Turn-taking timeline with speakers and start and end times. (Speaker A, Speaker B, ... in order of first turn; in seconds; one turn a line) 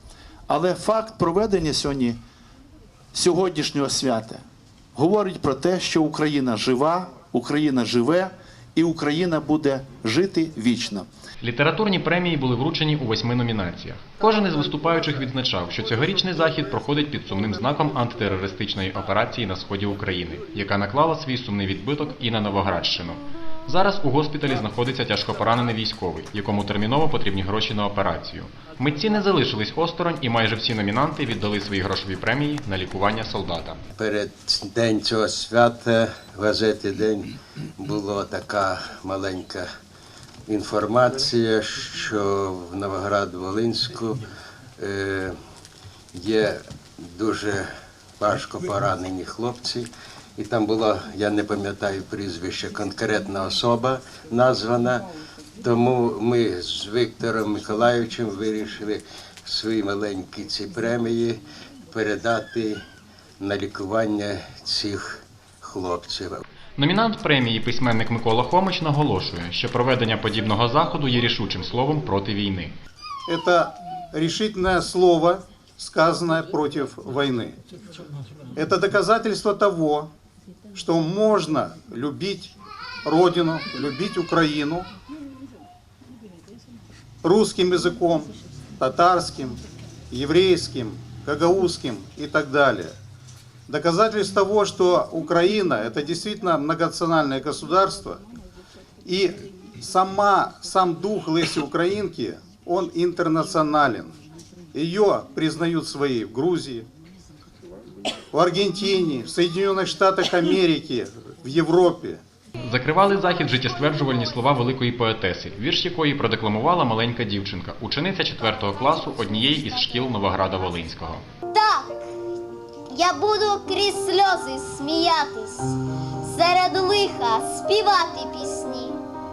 Speaker A: 0.5-2.2
Speaker A: 3.1-4.4
Speaker A: 4.9-11.1
Speaker B: 11.4-33.8
Speaker C: 34.0-39.7
Speaker C: 40.5-44.2
Speaker C: 44.8-45.3
Speaker C: 46.1-47.7
Speaker C: 48.2-62.8
Speaker C: 63.4-66.4
Speaker B: 66.8-72.7
Speaker D: 73.3-77.6
Speaker D: 78.5-80.1
Speaker D: 80.7-82.5
Speaker D: 83.0-84.9
Speaker D: 87.2-89.6
Speaker D: 90.1-92.9
Speaker D: 93.7-98.2
Speaker D: 99.0-104.1
Speaker D: 104.7-106.9
Speaker D: 108.3-112.2
Speaker B: 112.6-121.2
Speaker E: 121.5-122.1
Speaker E: 122.9-129.0